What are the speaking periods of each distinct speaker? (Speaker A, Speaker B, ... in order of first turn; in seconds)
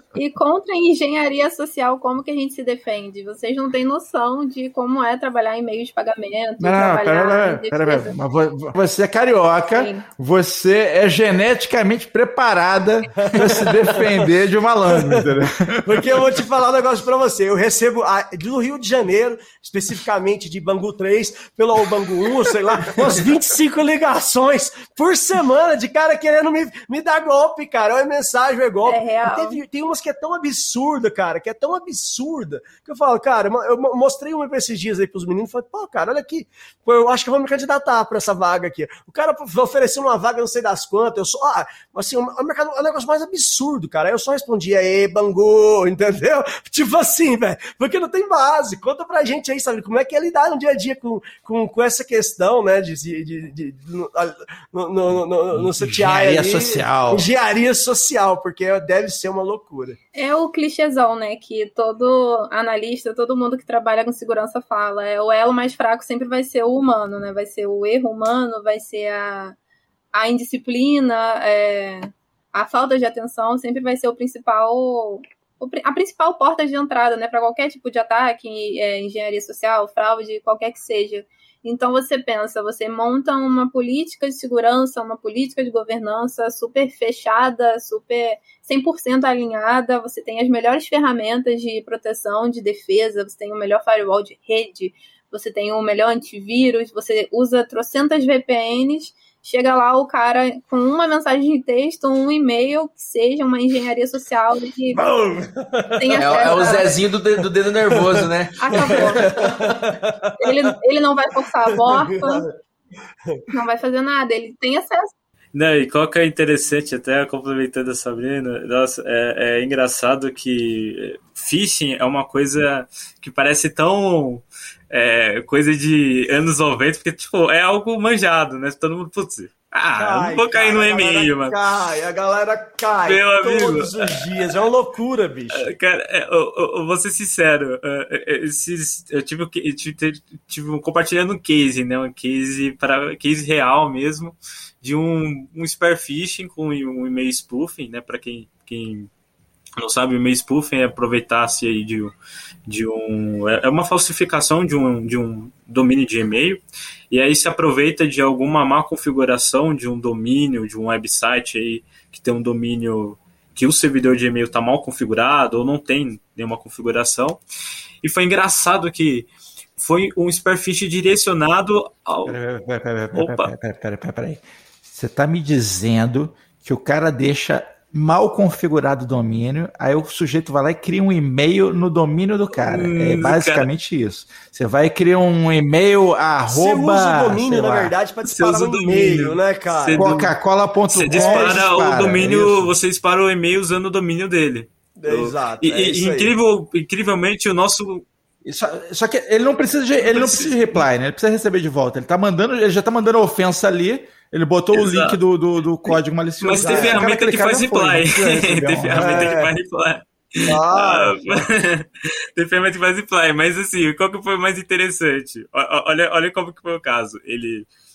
Speaker A: 0.1-8.1, 9.7-10.1, 28.9-29.6, 60.1-69.5, 70.1-105.0, 106.0-106.9, 108.6-109.2, 110.4-112.4, 113.5-115.1
Speaker B: 6.6-16.4, 55.5-57.3, 172.2-187.9, 189.9-192.7, 198.4-209.3
Speaker C: 13.4-14.3, 14.9-15.2, 15.8-60.0, 104.9-106.7, 107.9-110.3, 111.8-112.5, 129.9-135.6, 186.5-190.1, 191.1-191.6, 195.0-196.3, 206.6-207.0, 208.9-209.5, 210.4-211.2
Speaker D: 106.2-109.5
Speaker E: 115.5-131.6, 133.0-134.6, 135.6-149.1, 149.8-152.1, 152.7-167.4, 168.0-172.4, 173.1-173.5, 182.6-183.7, 188.2-190.3, 190.9-198.1, 200.0-200.8, 204.7-205.2, 205.9-217.7